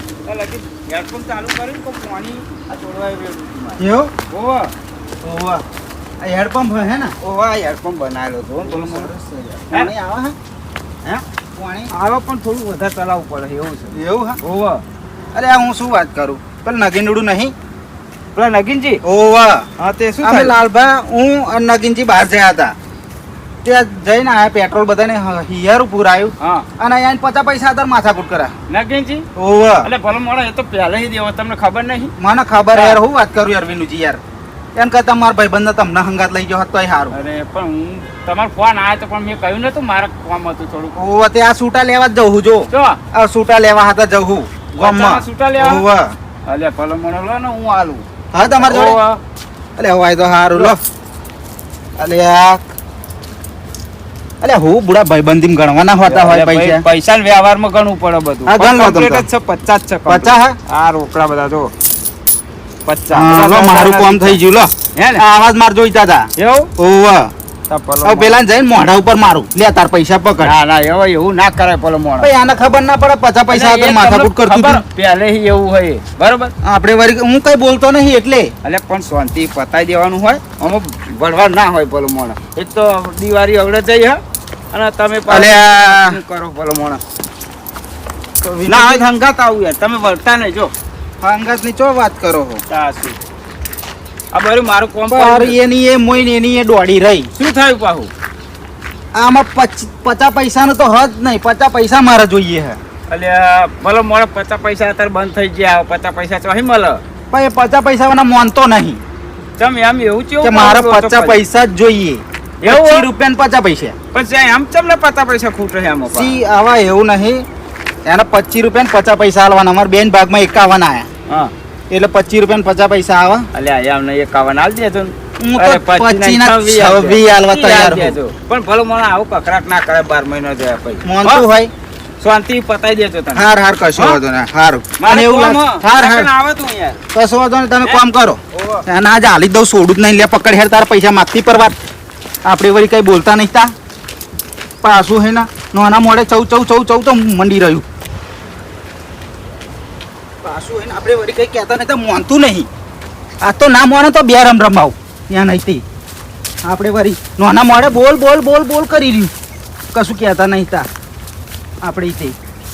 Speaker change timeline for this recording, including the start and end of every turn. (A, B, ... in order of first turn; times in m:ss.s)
0:00.2-0:04.7 A
0:03.8-0:04.1 B
0:05.3-0:05.6 A
0:06.2-0:07.2 B
0:07.2-0:09.1 A
0:08.6-0:10.4 B
0:11.6-0:11.9 B
0:11.9-0:14.8 A
0:13.9-0:14.4 B
0:15.3-0:17.5 B
0:18.4-0:19.0 A
0:19.0-0:19.7 B
0:19.8-0:20.6 A
0:20.2-0:22.7 B
0:23.6-0:28.5 B
0:26.4-0:26.7 A
0:28.7-0:29.3 A
0:29.4-0:29.9 B
0:29.8-0:32.1 A
0:32.2-0:34.2 B
0:32.7-0:33.0 A
0:34.8-0:37.2 B
0:37.1-0:41.0 A
0:41.0-0:46.1 B
0:42.7-0:43.0 A
0:44.8-0:45.8 A
0:46.5-0:49.2 A
0:48.3-0:49.0 B
0:49.8-0:50.8 B
0:52.0-0:52.6 B
0:54.4-0:56.8 B
0:56.1-1:01.7 A
0:58.5-0:59.3 B
1:00.1-1:00.6 B
1:02.8-1:04.4 A
1:03.1-1:07.3 B
1:05.0-1:05.2 A
1:06.4-1:06.7 A
1:07.7-1:08.4 A
1:08.0-1:10.5 B
1:10.4-1:12.3 A
1:12.2-1:14.8 B
1:13.5-1:16.5 A
1:16.6-1:18.5 B
1:18.6-1:24.2 A
1:24.7-1:27.0 A
1:25.3-1:26.2 B
1:28.4-1:30.7 A
1:28.6-1:29.1 B
1:31.2-1:32.6 B
1:32.7-1:33.2 A
1:34.3-1:35.6 A
1:35.1-1:37.3 B
1:37.4-1:38.1 A
1:39.2-1:42.8 B
1:43.1-1:47.0 A
1:47.3-1:49.0 B
1:49.6-1:51.4 A
1:50.4-1:54.0 B
1:52.6-1:53.1 A
1:54.1-1:56.4 A
1:56.1-1:57.4 B
1:58.1-2:01.1 B
2:01.9-2:03.5 B
2:03.5-2:11.5 A
2:05.4-2:08.2 B
2:11.0-2:11.7 B
2:12.2-2:14.2 A
2:13.3-2:16.3 B
2:15.0-2:17.0 A
2:17.1-2:21.8 B
2:17.8-2:18.8 A
2:22.4-2:23.7 B
2:24.8-2:27.8 B
2:30.4-2:32.7 B
2:33.4-2:35.8 B
2:36.6-2:39.3 B
2:39.9-2:40.9 B
2:41.8-2:42.4 B